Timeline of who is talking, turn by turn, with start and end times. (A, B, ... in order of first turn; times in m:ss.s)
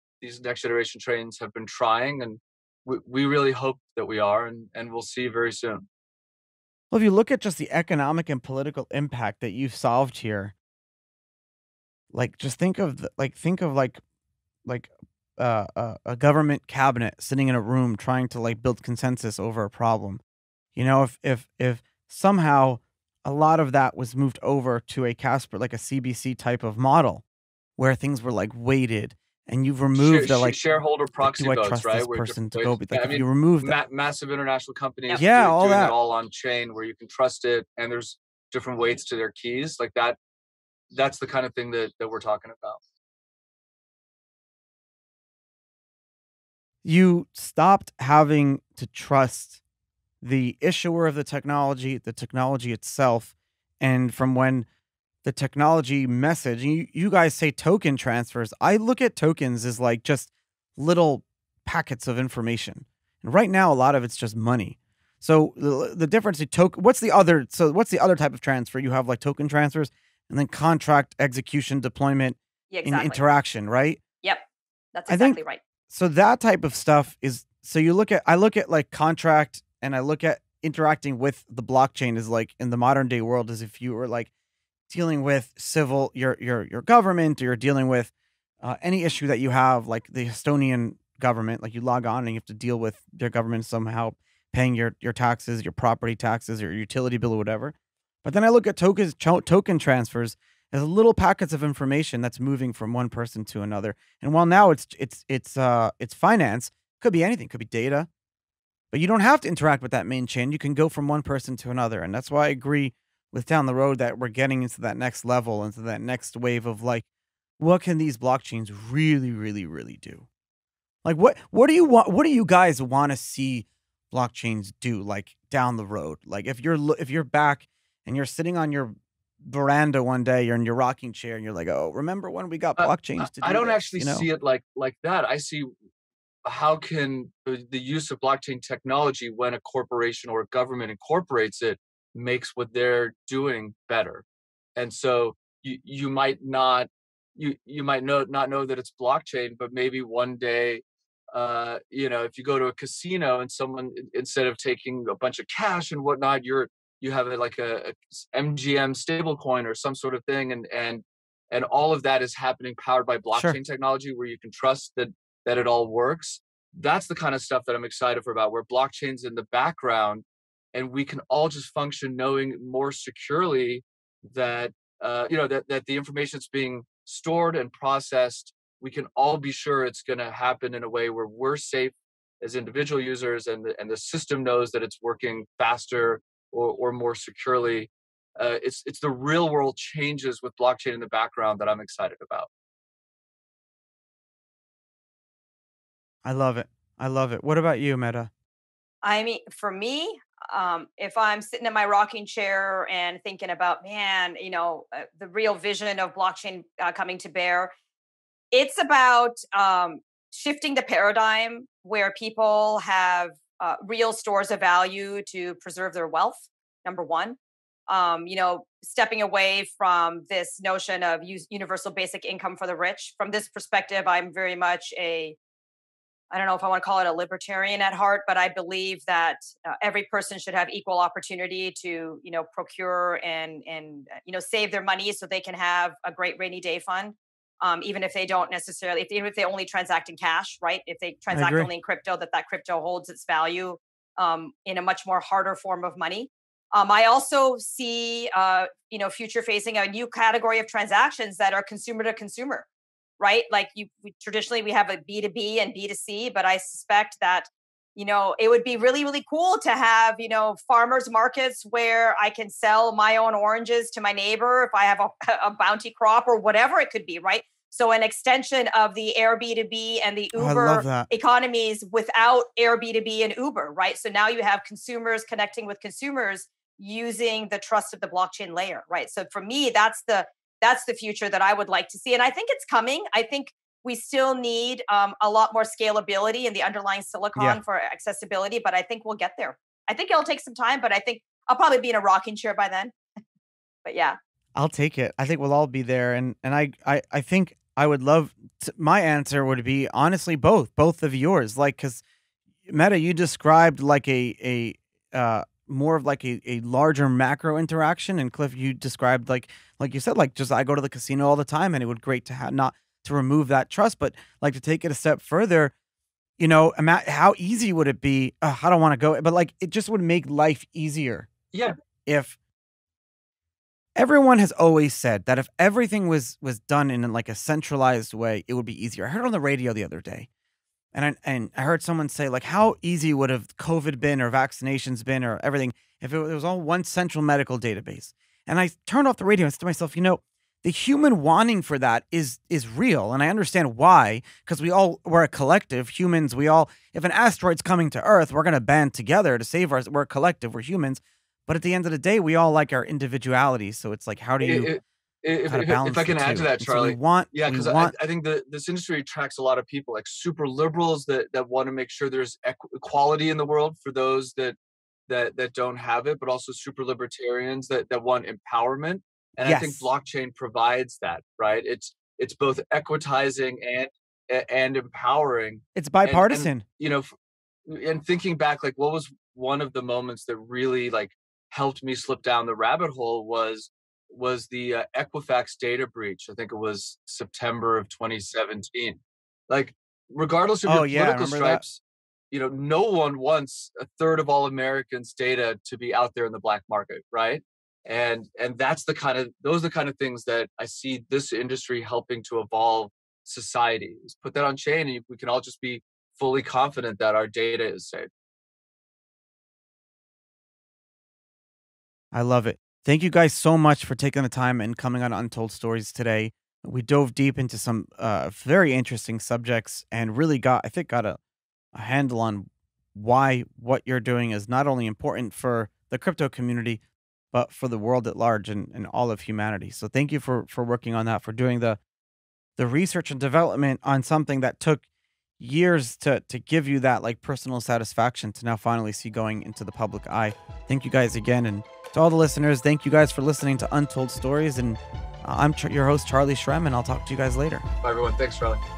0:00.2-0:05.9 A
0:06.9-0:10.5 B
0:12.1-0:14.0 B
0:14.6-0:20.2 B
0:20.7-0:27.2 B
0:27.8-0:30.6 B
0:29.9-0:40.2 A
0:31.2-0:33.8 B
0:35.2-0:36.0 B
0:40.9-0:42.8 A
0:46.8-0:49.6 B
0:50.2-0:54.6 B
0:55.2-1:14.0 B
1:12.7-1:13.2 C
1:14.2-1:15.6 C
1:15.1-1:24.3 B
1:24.9-1:48.1 B
1:48.9-1:57.0 B
1:57.6-2:00.2 B
2:01.0-2:14.3 B
2:12.8-2:15.7 A
2:16.4-2:24.2 A
2:24.8-3:12.5 A
2:43.3-2:43.6 B
3:16.2-3:18.3 B
3:19.0-3:27.7 C
3:28.5-3:37.4 C
3:37.9-3:45.4 C
3:46.3-4:12.6 C
4:01.3-4:01.7 B
4:13.2-4:52.9 C
4:30.3-4:31.1 B
4:47.3-4:47.6 B
4:53.8-4:54.2 C
4:54.6-5:02.0 B
5:02.6-5:15.7 B
5:16.4-5:21.3 B
5:22.0-5:22.3 B
5:24.0-5:30.3 B
5:30.9-5:54.7 B
5:54.4-6:17.1 A
5:55.5-5:57.9 B
6:09.4-6:09.9 B
6:15.7-6:16.6 B
6:17.7-6:31.8 A
6:30.6-6:31.6 B
6:32.3-6:48.1 A
6:52.1-7:01.2 B
7:01.7-7:06.8 B
7:07.3-7:11.8 B
7:12.6-7:14.8 B
7:15.4-7:27.6 B
7:27.8-7:28.6 A